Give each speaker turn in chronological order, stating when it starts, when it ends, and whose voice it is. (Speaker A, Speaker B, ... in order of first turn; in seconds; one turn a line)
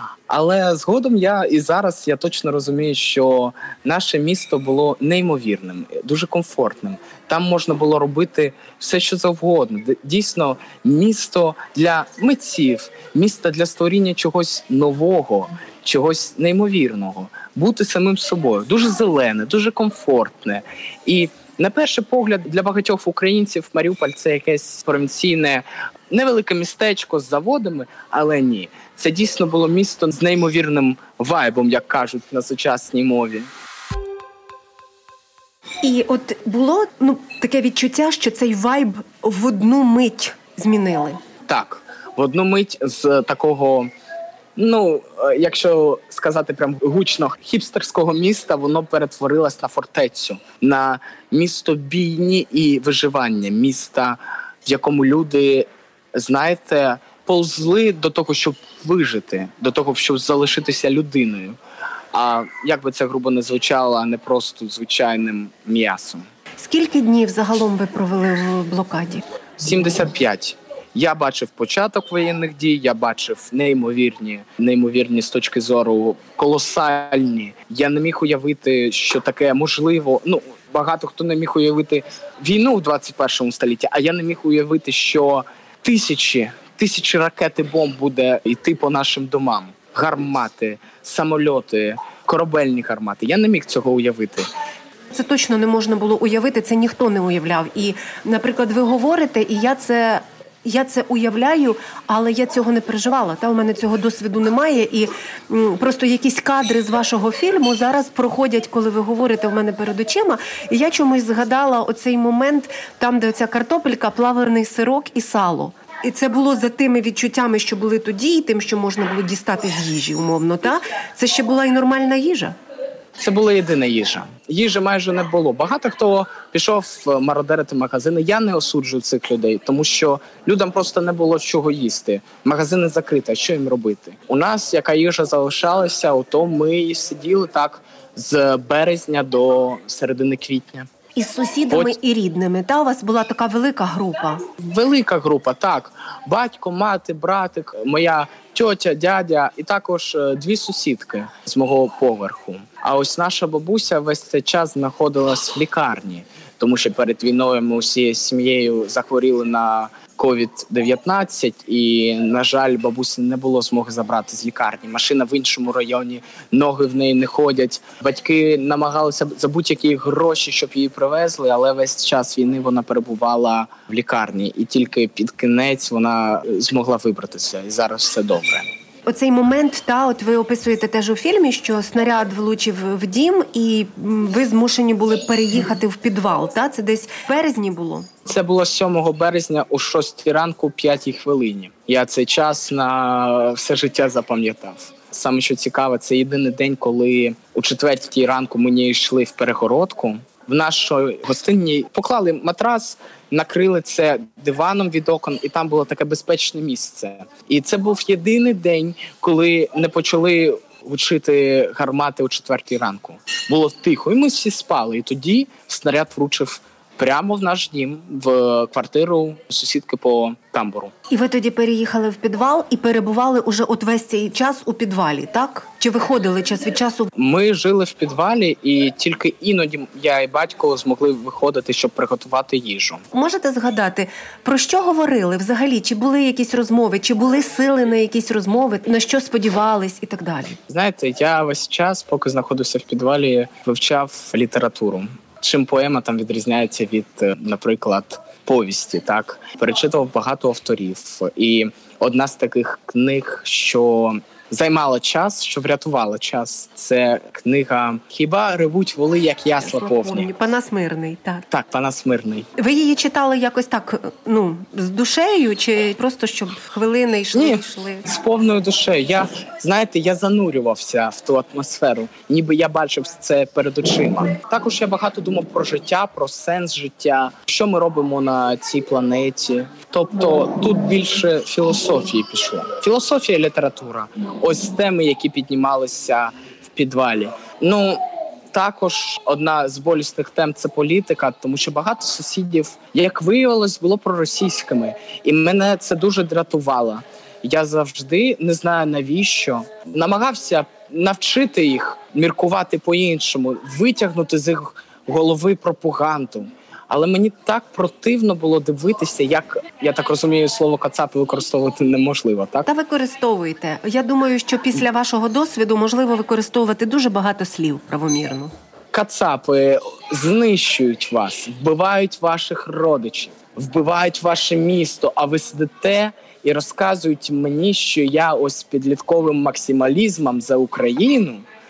Speaker A: 0.3-33.5
Speaker B: 35.8-41.2
Speaker A: 41.5-43.9
Speaker A: 44.5-61.6
Speaker A: 62.1-66.2
Speaker B: 66.6-69.2
Speaker A: 69.6-94.4
Speaker B: 95.1-122.5
Speaker A: 123.2-140.9
Speaker B: 141.1-144.5
Speaker A: 144.6-178.7
Speaker B: 179.1-188.1
Speaker A: 188.2-220.9
Speaker B: 221.1-227.1
Speaker A: 227.1-233.0
Speaker B: 233.1-240.6
Speaker A: 240.7-260.3
Speaker B: 259.6-261.4
Speaker A: 261.5-262.5
Speaker B: 262.6-268.1
Speaker A: 267.3-288.0
Speaker A: 288.5-312.7
Speaker B: 312.6-318.5
Speaker A: 318.9-331.4